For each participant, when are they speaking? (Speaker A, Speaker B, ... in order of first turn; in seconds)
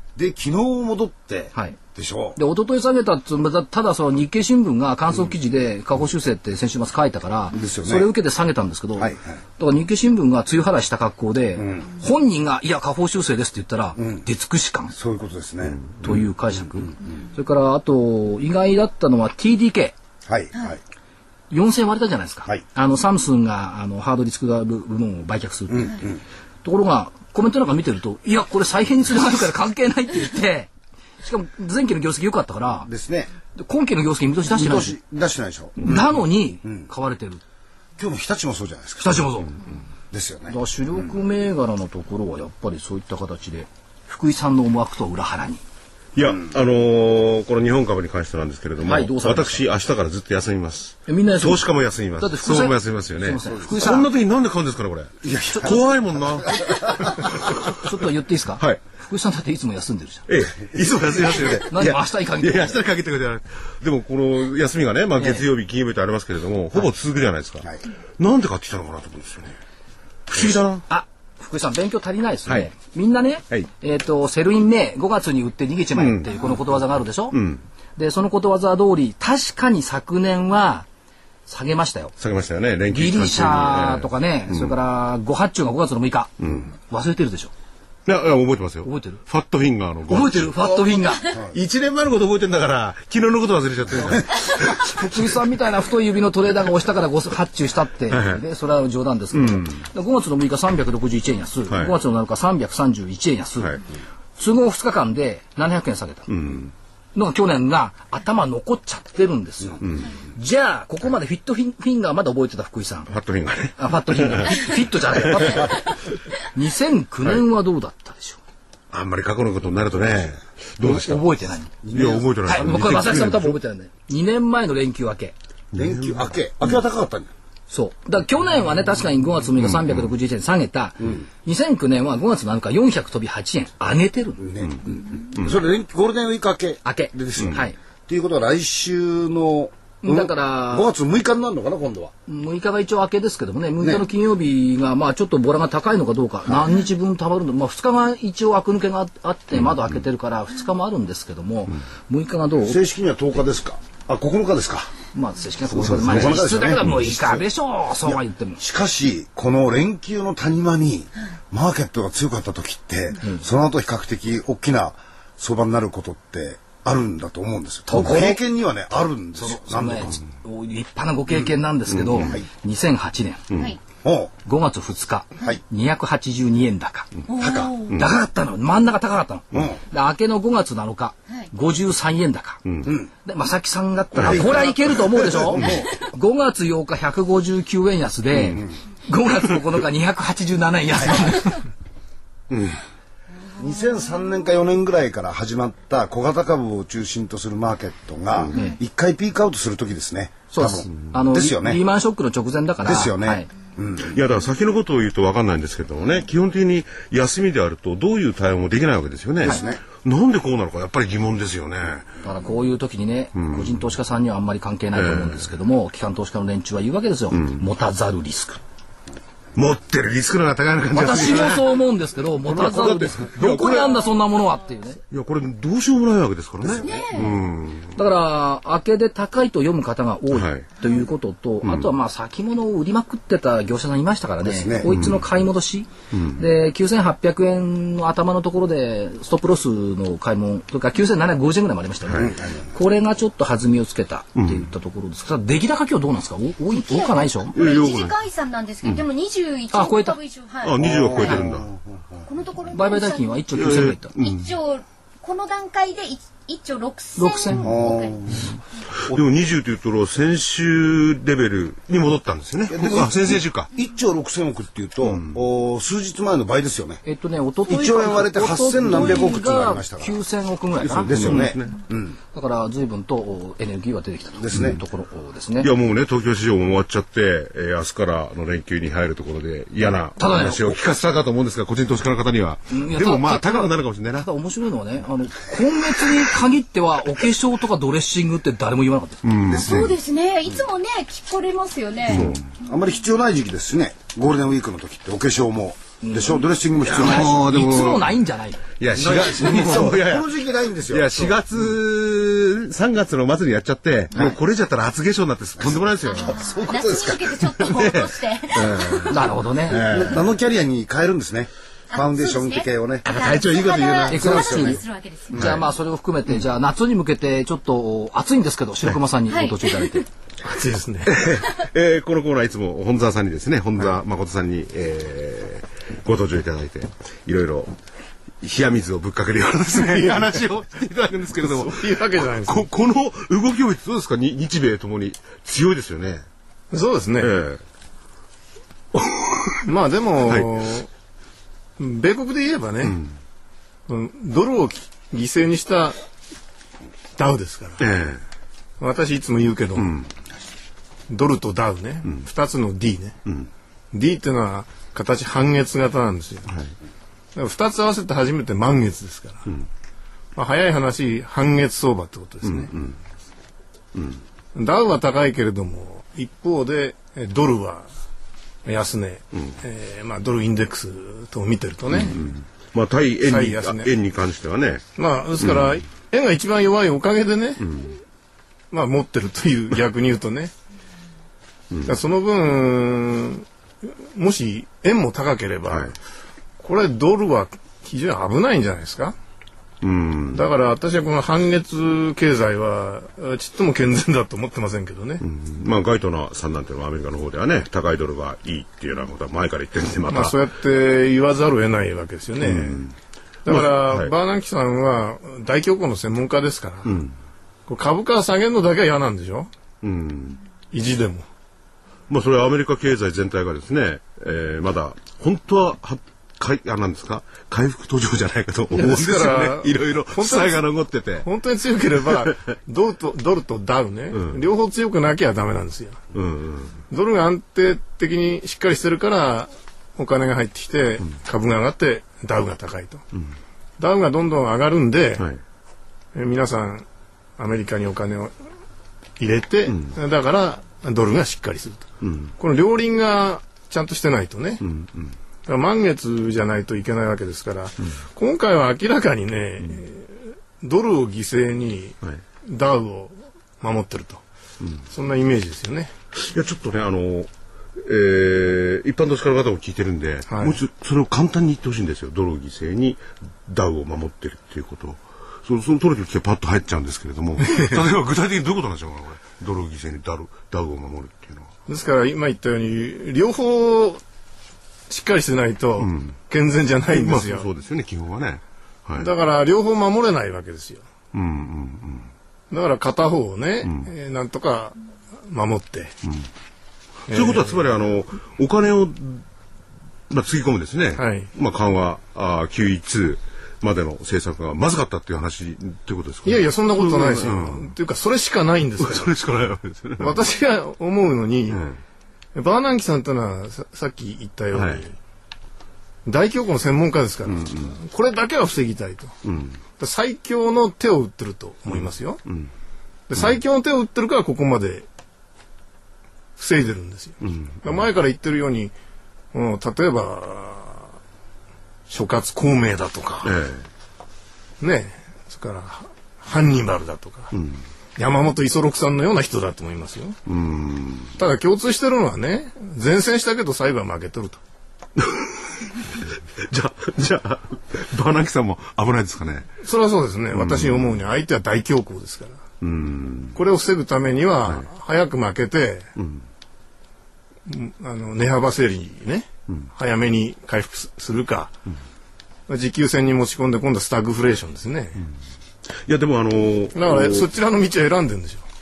Speaker A: 0.1-2.4, 7.5-8.1, 8.9-9.4, 11.6-11.9, 14.9-15.8, 20.2-20.8, 25.7-26.2, 32.9-33.3, 34.5-35.9, 38.0-39.4, 40.1-40.5, 55.2-55.7, 121.8-122.7, 125.7-127.3, 134.4-142.1, 152.6-154.9, 155.8-157.4, 158.1-170.2, 172.1-172.5, 174.0-174.3, 177.4-177.8, 179.5-179.8, 184.2-185.9, 193.6-201.8, 202.8-204.1, 209.4-209.8, 226.6-227.0, 234.4-235.1, 242.2-242.6, 250.8-252.2, 257.6-258.5, 262.7-267.0, 267.7-270.2, 271.0-272.2, 274.4-274.8, 289.5-289.9, 292.1-297.4, 298.9-301.4, 305.6-307.3, 309.8-313.1, 314.1-314.8
Speaker B: 2.4-14.9, 16.0-19.9, 21.5-26.0, 26.6-30.7, 31.2-32.9, 33.6-35.0, 35.8-37.4, 39.0-39.6, 40.5-45.6, 48.8-49.6, 51.1-54.1, 55.4-55.8, 57.2-60.2, 61.6-62.8, 65.2-65.5, 70.3-77.4, 78.0-80.8, 81.5-82.1, 82.9-87.5, 88.8-89.2, 90.1-91.3, 94.8-103.8, 104.4-106.3, 107.1-113.1, 113.8-115.9, 116.5-118.4, 120.8-121.8, 122.4-125.3, 127.7-134.4, 136.8-137.8, 140.0-140.9, 142.3-152.8, 155.1-158.6, 167.9-168.4, 169.3-173.4, 174.4-177.1, 177.9-182.6, 183.2-191.7, 200.5-203.5, 212.2-218.6, 220.9-225.0, 227.9-247.6, 249.7-250.2, 252.7-254.1, 257.2-257.7, 267.1-271.5, 272.3-275.7, 280.2-280.8, 282.7-289.2, 296.0-298.6, 299.2-299.9, 309.1-309.8, 314.1-314.8, 315.3-320.1
Speaker C: 46.1-57.9, 60.3-67.7, 68.2-69.6, 70.3-70.8, 75.9-76.5, 77.3-77.6, 82.2-84.8, 86.4-86.7, 88.1-90.8, 91.5-95.0, 98.1-98.4, 99.4-99.7, 106.3-106.7, 109.8-110.1, 113.1-114.7, 118.9-121.2, 121.9-123.6, 125.7-126.3, 129.6-130.1, 155.9-156.9, 182.7-182.9, 184.2-184.7, 192.5-192.8, 204.0-212.1, 213.3-213.7, 214.9-215.5, 217.3-217.6, 219.6-221.7, 222.5-224.0, 225.1-228.0, 230.3-230.7, 231.6-231.9, 234.8-235.2, 236.1-236.4, 244.4-244.7, 247.6-248.1, 250.6-251.7, 253.5-254.5, 259.1-263.7, 265.1-265.4, 270.8-271.8, 275.6-284.3, 289.2-289.9, 292.1-292.4, 296.8-298.1, 298.8-300.3, 300.9-306.6, 307.6-310.3, 313.1-314.3, 315.3-315.6, 321.1-327.7, 328.4-336.2, 337.2-337.6, 338.9-339.6, 342.8-343.1, 347.8-348.2, 349.8-350.1, 362.4-363.0, 363.9-364.2, 371.9-374.8, 375.4-375.7, 377.6-378.0, 389.8-390.5, 395.2-400.4, 402.4-402.9, 403.5-404.1, 406.9-407.1, 409.8-410.4, 412.1-421.3, 424.1-424.4, 426.1-426.8, 439.7-439.9, 442.0-442.3, 444.6-445.1, 456.2-471.5, 475.8-476.1, 476.9-479.1, 481.1-482.1, 487.1-489.2, 490.1-497.7, 498.8-500.2, 501.5-501.8, 504.5-504.8, 507.3-507.7, 509.2-509.6, 511.7-512.5, 517.2-517.8, 523.2-523.6, 527.3-527.6, 530.3-531.1, 535.0-539.5, 540.3-540.9, 542.6-543.4, 546.0-546.2, 555.9-557.3
Speaker D: 177.3-178.0, 226.8-227.3, 246.7-251.4, 252.3-253.4, 254.2-258.2, 289.5-292.2, 306.0-309.3, 311.9-315.4, 319.3-320.0
Speaker E: 320.4-321.2, 329.8-330.4, 331.4-332.7, 336.7-337.3, 339.7-340.9, 341.8-343.0, 343.9-345.9, 347.2-347.8, 348.8-349.9, 351.1-353.2, 353.9-356.5, 357.3-359.5, 360.3-362.7, 364.6-367.9, 368.6-372.2, 373.2-373.9, 374.9-377.7, 378.7-380.5, 381.9-383.5, 384.1-385.9, 386.6-389.2, 390.3-395.2, 400.1-402.8, 403.4-407.0, 407.7-409.5, 410.7-411.2, 418.7-420.6, 421.2-426.0, 426.9-433.0, 433.8-435.2, 436.1-436.9, 437.4-438.3, 439.2-441.9, 442.4-444.6, 445.4-454.2, 454.9-455.9, 460.3-460.6, 467.4-467.8, 471.7-474.0, 474.9-477.5, 479.0-480.8, 482.5-484.8, 485.3-485.9, 487.1-487.7, 490.9-491.3, 496.2-499.1, 500.0-501.7, 502.3-504.9, 506.1-509.1, 509.8-512.2, 513.1-514.9, 516.4-518.7, 519.3-520.8, 521.9-523.4, 524.6-527.3, 528.0-530.2, 531.2-534.4, 539.6-542.4, 543.4-545.9, 547.5-551.5, 552.5-555.1, 556.7-558.4